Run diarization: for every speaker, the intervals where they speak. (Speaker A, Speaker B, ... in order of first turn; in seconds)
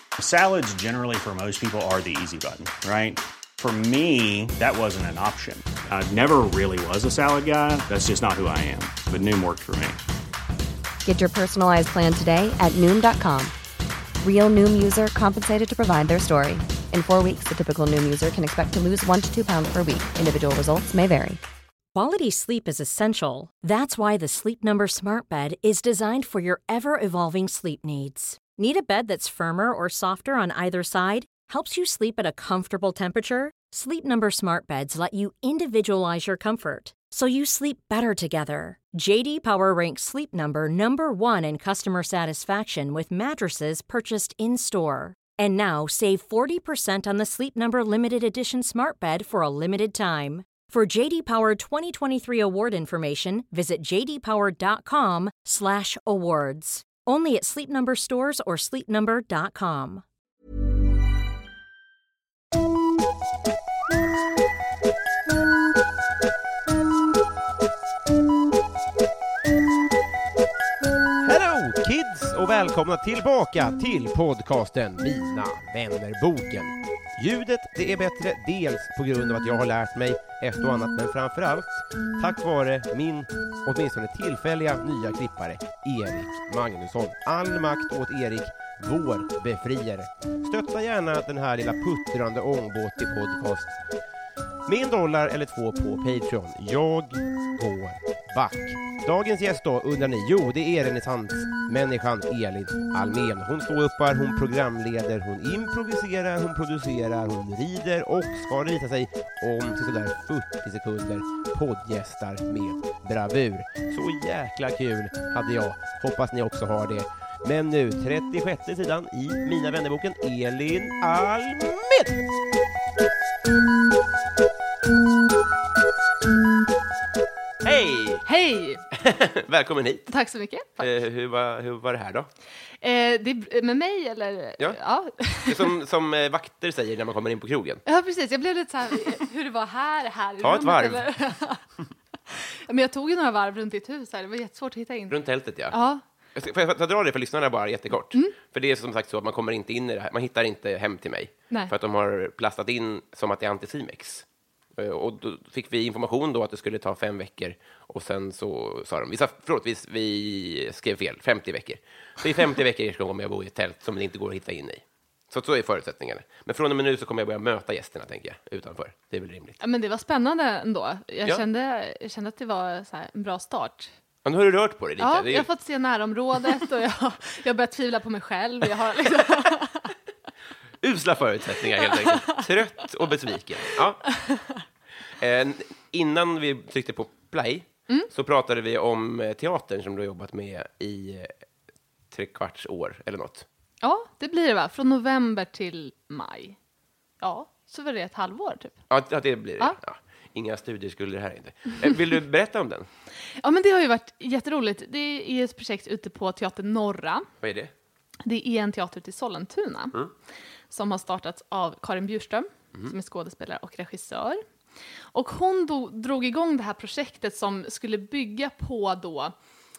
Speaker A: 0.2-10.0
Speaker B: 11.1-13.5, 14.2-21.4
Speaker C: 21.9-60.0
Speaker D: 71.2-93.8, 94.7-122.2, 127.6-128.2, 128.9-130.1, 130.8-132.3, 135.5-137.8, 140.4-141.1, 145.1-145.8, 146.3-169.6, 174.2-175.5, 180.8-184.0, 185.2-191.3, 192.1-193.5, 198.9-202.9, 207.4-207.7
Speaker E: 128.3-128.8, 130.1-130.9, 132.8-135.8, 137.9-141.6, 142.3-145.2, 145.7-146.0, 169.6-173.9, 175.0-179.9, 182.0-182.4, 193.8-196.6, 197.2-198.8, 203.4-207.3, 208.2-210.1, 210.7-214.4, 215.1-219.3